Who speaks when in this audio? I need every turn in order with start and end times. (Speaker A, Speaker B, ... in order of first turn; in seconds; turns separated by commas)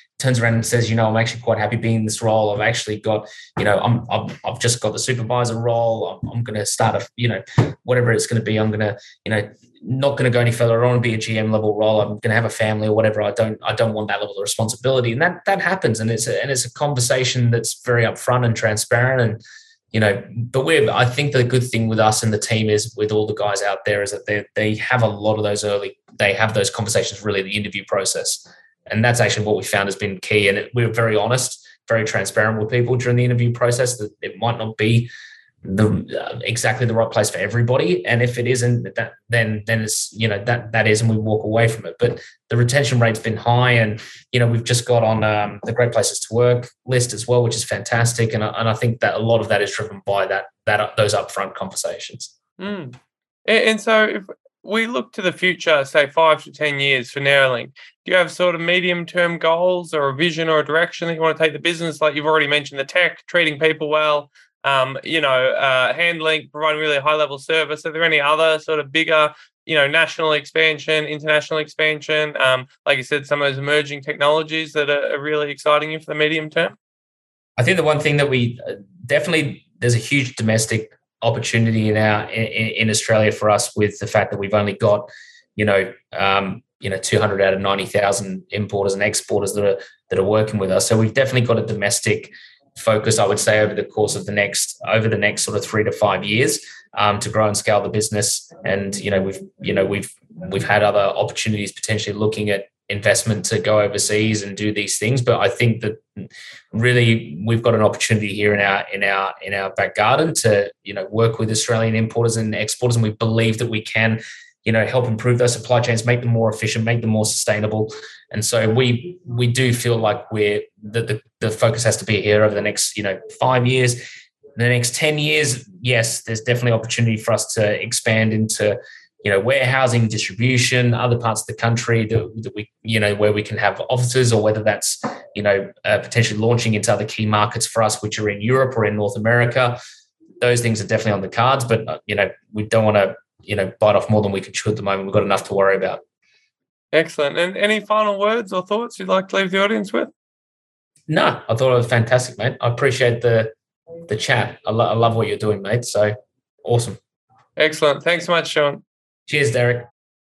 Speaker A: 0.2-19.4, Speaker A: 19.9-35.1, Speaker A: 35.6-52.3, Speaker B: 52.6-76.8, Speaker A: 77.6-124.0, Speaker A: 124.5-139.8, Speaker A: 140.4-146.0, Speaker B: 146.9-150.1, Speaker A: 151.1-153.5, Speaker A: 154.1-157.0, Speaker B: 157.6-158.8, Speaker A: 159.3-159.9